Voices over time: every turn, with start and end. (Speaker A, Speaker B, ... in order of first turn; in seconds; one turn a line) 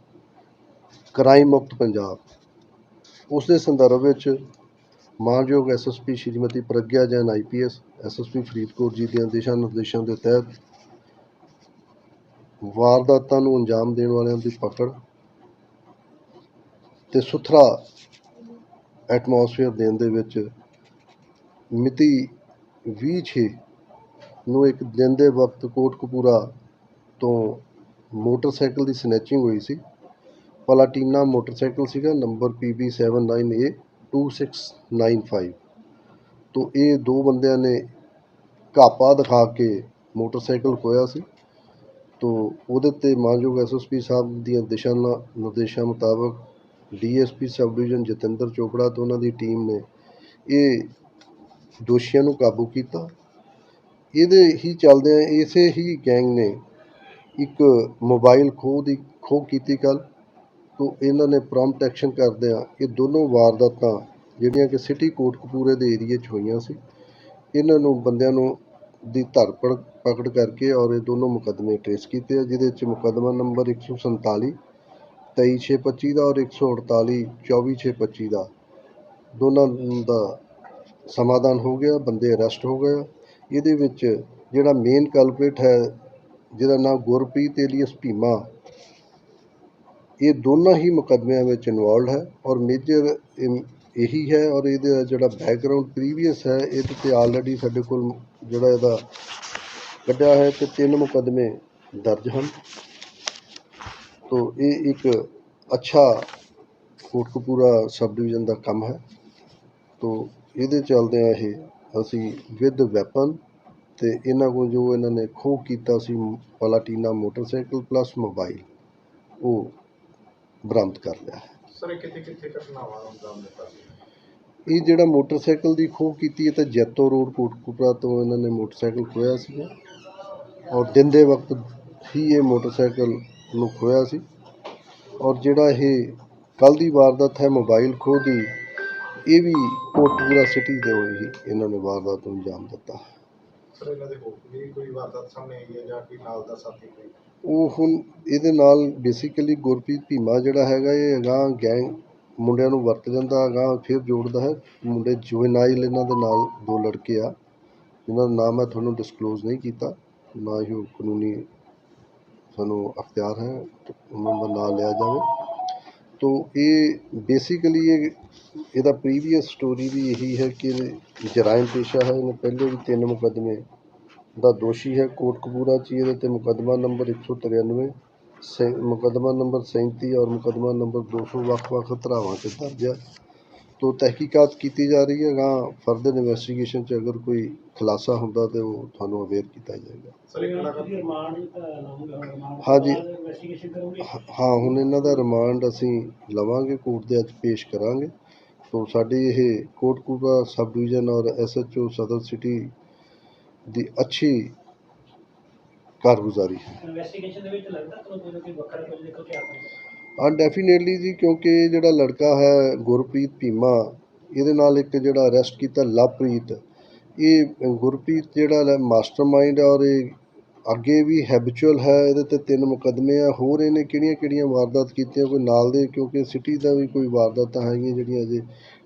Speaker A: 1.1-2.2
Speaker A: 3.3-4.5
Speaker A: 5.2-10.5
Speaker A: 12.6-15.0
Speaker A: 17.1-17.8
Speaker A: 19.1-20.5
Speaker A: 21.7-22.4
Speaker A: 22.9-23.6
Speaker A: 24.5-26.5
Speaker A: 27.2-29.8
Speaker A: 30.7-35.6
Speaker A: 36.5-37.9
Speaker A: 38.7-41.3
Speaker A: 42.2-49.9
Speaker A: 50.5-50.9
Speaker A: 51.8-53.1
Speaker A: 54.1-56.6
Speaker A: 57.4-60.0
Speaker A: 60.8-66.8
Speaker A: 67.5-74.6
Speaker A: 75.3-78.5
Speaker A: 79.4-80.4
Speaker A: 81.1-86.0
Speaker A: 86.5-88.5
Speaker A: 90.2-99.1
Speaker A: 100.1-102.6
Speaker A: 104.3-106.3
Speaker A: 107.1-109.0
Speaker A: 110.0-113.4
Speaker A: 114.0-118.7
Speaker A: 119.4-119.8
Speaker A: 120.7-121.5
Speaker B: 121.7-124.0
Speaker A: 124.7-129.7
Speaker A: 130.7-134.2
Speaker A: 135.2-138.6
Speaker A: 139.2-143.0
Speaker B: 143.7-147.2
Speaker A: 147.4-157.3
Speaker A: 158.1-161.5
Speaker A: 162.5-165.3
Speaker A: 166.2-168.2
Speaker A: 168.7-173.7
Speaker A: 174.4-183.0
Speaker A: 183.8-190.2
Speaker C: 190.3-194.8
Speaker A: 192.6-193.1
Speaker A: 194.0-198.1
Speaker A: 198.7-202.7
Speaker A: 203.7-204.6
Speaker A: 206.0-206.8
Speaker C: 206.8-209.7
Speaker A: 210.2-216.6
Speaker A: 217.2-228.5